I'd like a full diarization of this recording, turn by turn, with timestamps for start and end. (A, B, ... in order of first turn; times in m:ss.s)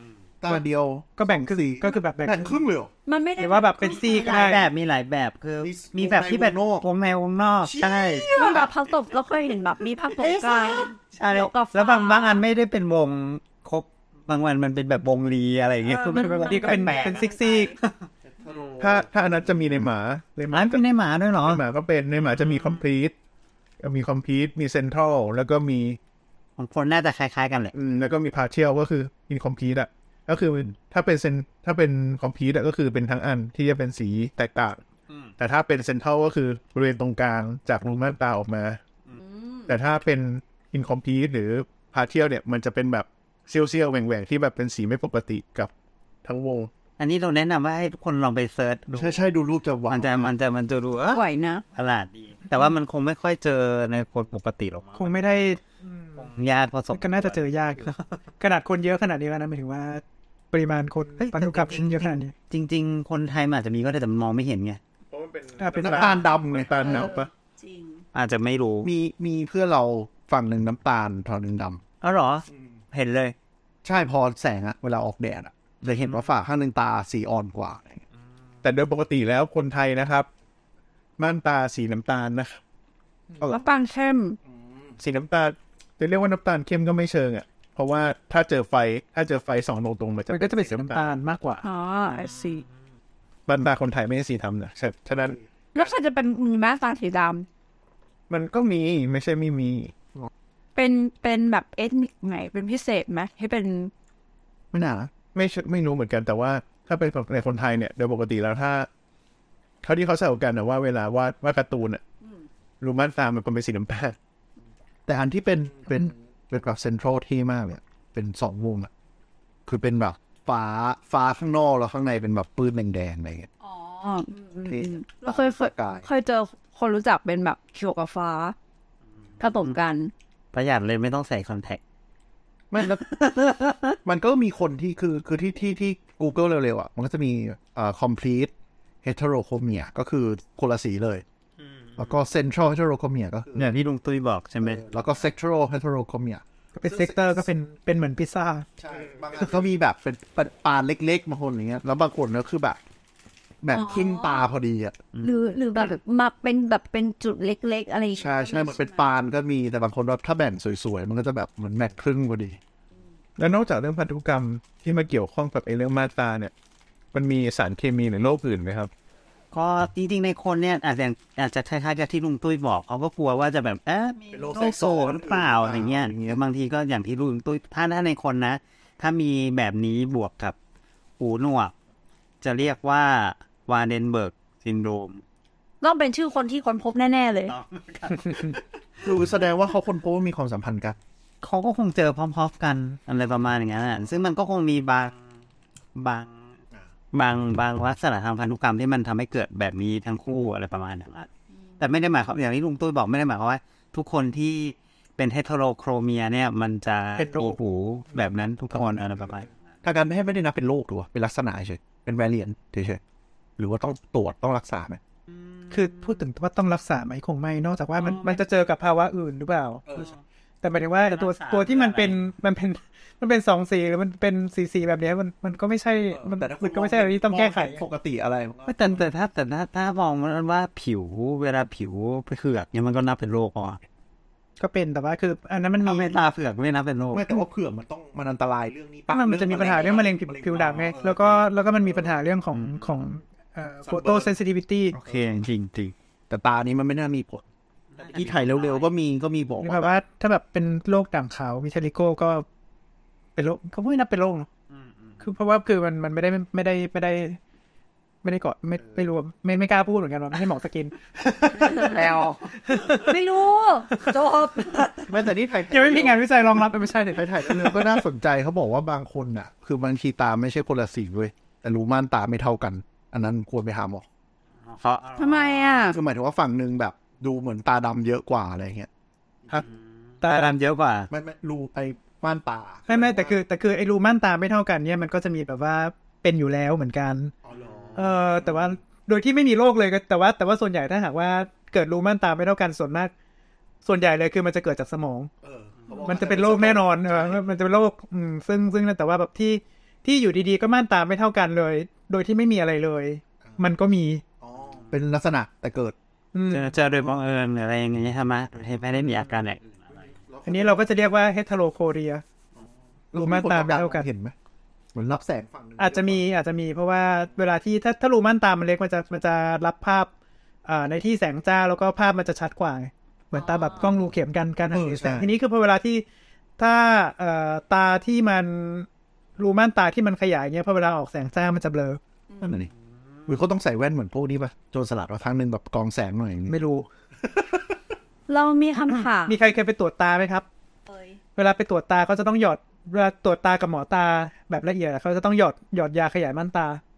0:00.4-0:02.9 A
0:01.2-0:02.6 B
0:03.1-0:04.3 C
0:03.4-0:04.7 B
0:03.9-0:08.5 D
0:05.6-0:06.9 A
0:07.6-0:08.7 A
0:08.4-0:12.4 C
0:10.1-0:17.8 D
0:15.9-0:17.0 C
0:16.4-0:17.8 B
0:18.4-0:19.8 A
0:18.8-0:20.8 E
0:20.5-0:21.6 D
0:21.4-0:23.1 E
0:22.4-0:22.8 D
0:23.8-0:26.0 E
0:26.6-0:27.7 D
0:27.7-0:34.8 E
0:35.4-0:38.8 E
0:39.4-0:39.7 C
0:39.7-0:45.7 E
0:46.2-0:46.7 E
0:47.0-0:49.2 D
0:48.9-0:50.3 A
0:49.9-0:51.2 D
0:51.1-0:51.6 C
0:51.8-0:55.4 D
0:54.9-0:56.3 B
0:56.2-0:58.0 D
0:56.9-1:02.3 B
1:01.2-1:04.8 D
1:05.1-1:07.3 E
1:05.6-1:06.1 B
1:05.8-1:07.1 A
1:06.8-1:08.0 C
1:08.1-1:08.9 D
1:08.8-1:11.8 A
1:12.0-1:13.4 D
1:13.8-1:18.0 A
1:15.9-1:16.3 D
1:18.6-1:20.3 E
1:21.2-1:22.6 E
1:23.5-1:24.4 C
1:25.0-1:31.1 E
1:30.3-1:31.7 B
1:31.6-1:32.6 C
1:33.5-1:35.4 E
1:35.8-1:37.5 C
1:38.3-1:39.9 E
1:40.8-1:43.9 C
1:44.7-1:45.1 A
1:45.3-1:48.9 E
1:49.8-1:52.0 E
1:52.8-1:54.2 E
1:55.1-1:58.9 A
1:59.7-2:03.5 A
2:03.6-2:08.6 C
2:04.6-2:06.0 A
2:09.4-2:10.1 C
2:09.5-2:09.8 D
2:10.5-2:11.8 D
2:12.7-2:13.2 A
2:12.8-2:14.0 D
2:14.0-2:18.5 A
2:19.0-2:21.2 A
2:21.8-2:22.2 D
2:22.0-2:23.7 A
2:23.6-2:24.9 D
2:24.6-2:27.4 A
2:26.8-2:28.7 B
2:28.8-2:32.8 A
2:33.6-2:35.0 A
2:33.7-2:34.5 C
2:35.2-2:39.0 C
2:38.1-2:42.6 A
2:43.4-2:46.5 E
2:47.1-2:48.9 E
2:49.5-3:00.6 D
2:54.3-2:56.4 A
3:01.2-3:01.7 D
3:02.4-3:05.2 D
3:05.8-3:07.5 C
3:07.4-3:09.2 D
3:09.0-3:11.0 A
3:11.4-3:15.1 D
3:16.0-3:16.6 D
3:17.1-3:21.3 D
3:21.8-3:29.5 D
3:27.2-3:27.6 B
3:29.8-3:33.0 A
3:33.6-3:35.0 A
3:35.3-3:36.2 D
3:35.7-3:39.8 B
3:38.0-3:38.4 D
3:39.9-3:40.1 A
3:39.9-3:40.2 D
3:40.6-3:47.8 B
3:41.1-3:42.3 D
3:46.1-3:48.9 A
3:48.6-3:53.8 D
3:54.6-3:56.2 B
3:55.8-3:57.3 D
3:57.1-4:02.1 A
3:59.1-4:05.0 B
4:02.5-4:02.9 D
4:03.8-4:04.4 A
4:04.9-4:05.9 D
4:06.3-4:07.4 A
4:07.9-4:08.9 D
4:08.0-4:09.9 A
4:09.6-4:12.4 B
4:13.4-4:14.5 B
4:14.7-4:15.3 D
4:15.2-4:17.4 B
4:18.2-4:23.2 B
4:21.9-4:22.4 A
4:21.9-4:22.2 D
4:23.0-4:24.8 C
4:23.9-4:24.9 B
4:25.0-4:26.3 A
4:25.7-4:27.9 B
4:27.1-4:34.0 A
4:34.6-4:35.9 D
4:35.2-4:36.0 C
4:35.9-4:38.9 A
4:39.5-4:41.1 D
4:41.1-4:43.4 A
4:42.9-4:47.3 B
4:47.4-4:48.7 A
4:48.0-4:53.1 B
4:53.8-4:55.3 B
4:55.4-4:57.4 A
4:56.0-5:04.2 B
5:04.4-5:06.0 A
5:06.3-5:06.7 B
5:06.5-5:09.8 D
5:10.0-5:10.9 A
5:10.4-5:12.2 B
5:12.6-5:14.3 A
5:13.1-5:14.1 B
5:14.9-5:16.3 A
5:15.8-5:20.1 B
5:20.6-5:26.0 B
5:23.3-5:23.9 C
5:24.7-5:25.3 A
5:26.6-5:32.0 B
5:32.4-5:32.7 A
5:33.3-5:36.6 A
5:36.5-5:36.9 B
5:37.3-5:37.7 A
5:38.3-5:39.4 C
5:39.2-5:40.5 B
5:40.9-5:41.2 C
5:41.4-5:46.8 B